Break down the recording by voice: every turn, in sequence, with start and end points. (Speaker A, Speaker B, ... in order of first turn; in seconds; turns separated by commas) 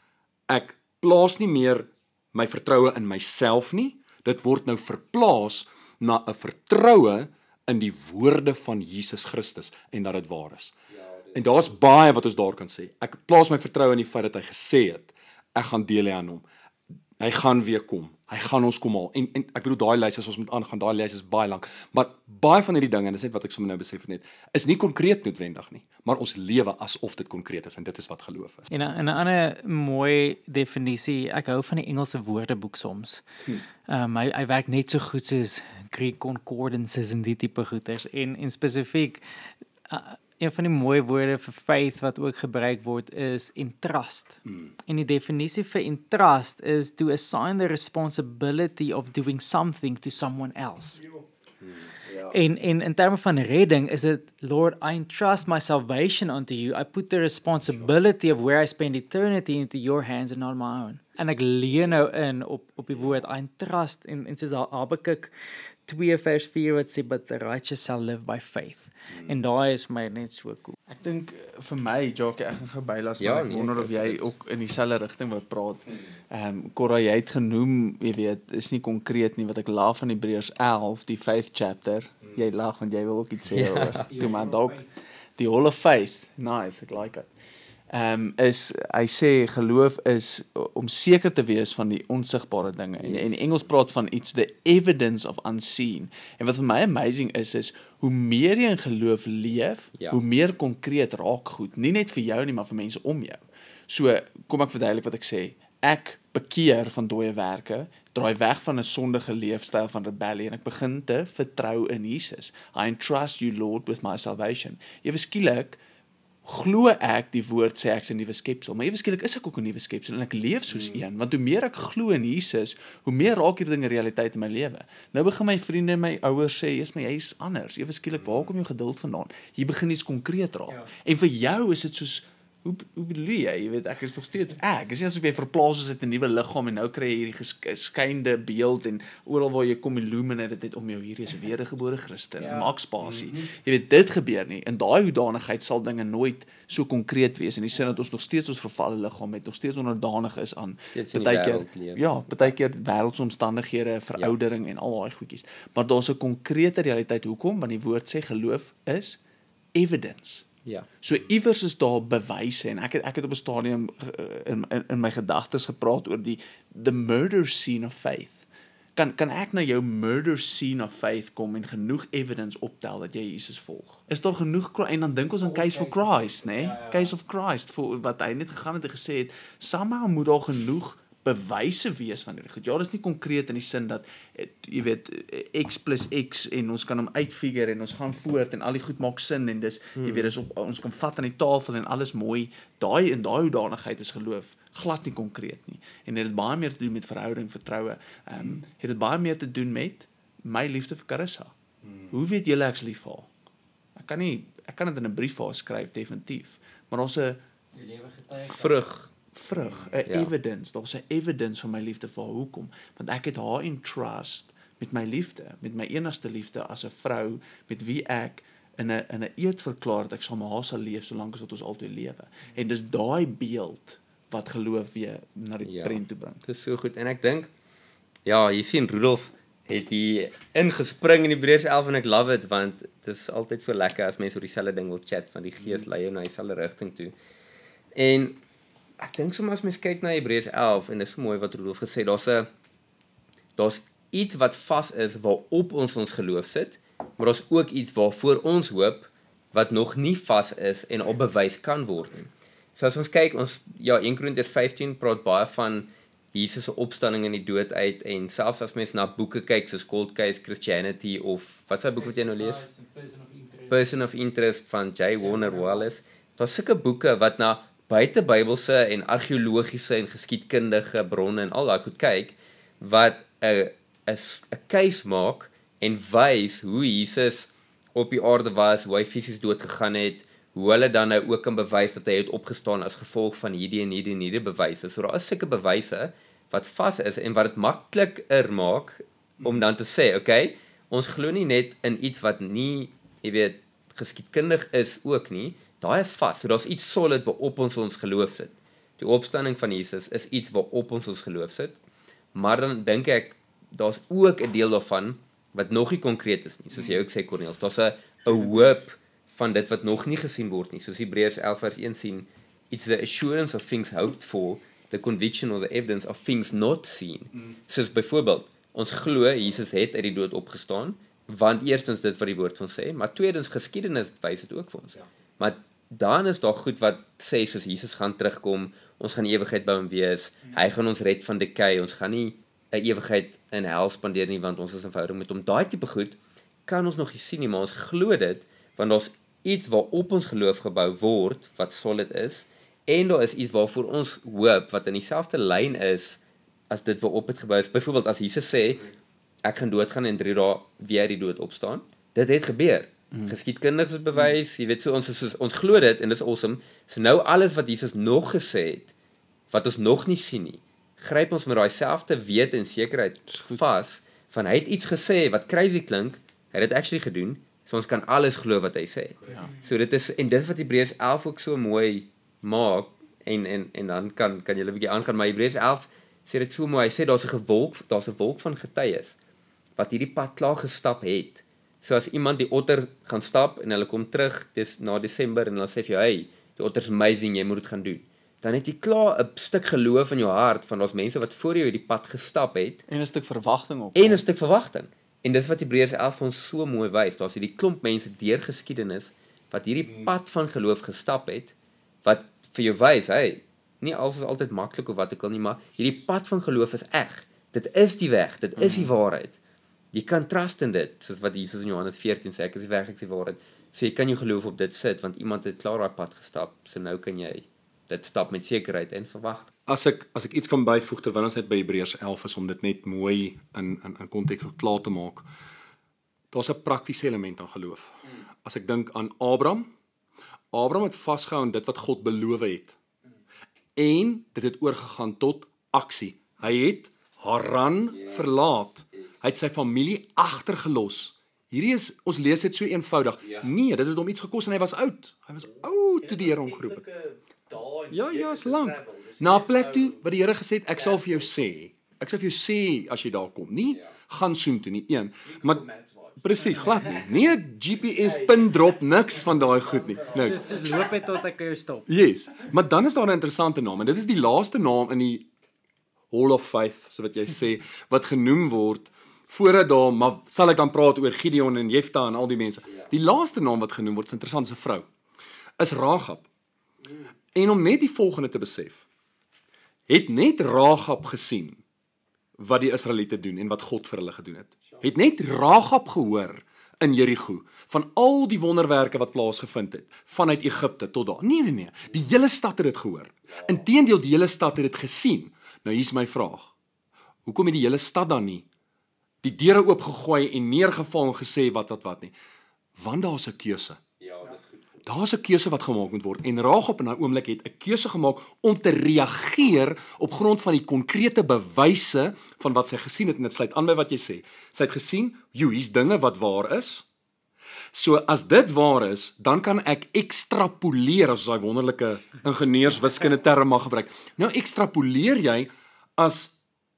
Speaker A: 0.5-10.8, Speaker A: 11.3-16.4, Speaker A: 17.2-28.7, Speaker B: 28.7-33.2, Speaker B: 33.9-39.2, Speaker B: 39.9-51.0, Speaker B: 52.1-65.3, Speaker B: 65.8-70.7, Speaker C: 70.9-84.8, Speaker D: 73.2-74.3, Speaker D: 83.5-84.1, Speaker B: 84.1-84.9, Speaker C: 85.4-87.3, Speaker C: 87.9-115.8, Speaker D: 93.0-93.3, Speaker C: 116.4-159.2, Speaker D: 150.9-152.5, Speaker C: 159.7-160.5, Speaker C: 161.0-201.5, Speaker B: 175.4-177.1, Speaker D: 190.0-190.3, Speaker C: 202.1-203.3, Speaker C: 203.9-207.4, Speaker B: 207.7-208.7, Speaker D: 208.5-209.1, Speaker C: 209.3-226.4, Speaker D: 225.6-227.5, Speaker D: 228.2-237.1, Speaker D: 237.9-238.4, Speaker D: 239.0-242.5, Speaker D: 243.6-262.6, Speaker B: 262.0-263.8, Speaker D: 263.7-301.8, Speaker B: 265.2-266.0, Speaker D: 302.3-346.2, Speaker D: 346.7-348.9, Speaker D: 349.4-358.9, Speaker D: 359.5-379.1, Speaker C: 363.3-363.6, Speaker C: 369.2-369.5, Speaker D: 379.8-392.8, Speaker C: 392.9-394.2, Speaker D: 393.9-409.4, Speaker C: 408.6-408.9, Speaker D: 409.9-419.5, Speaker A: 419.7-425.2, Speaker A: 426.3-429.7, Speaker A: 430.5-432.8, Speaker A: 433.8-446.9, Speaker A: 447.9-460.8, Speaker B: 460.1-461.9, Speaker A: 461.9-465.2, Speaker A: 466.1-474.9, Speaker A: 475.6-476.2, Speaker A: 477.3-478.8, Speaker A: 479.9-481.6, Speaker A: 482.4-496.5, Speaker A: 497.2-498.4, Speaker A: 499.2-502.1, Speaker A: 502.8-503.8, Speaker D: 504.0-504.8, Speaker A: 504.9-516.9, Speaker A: 517.7-526.4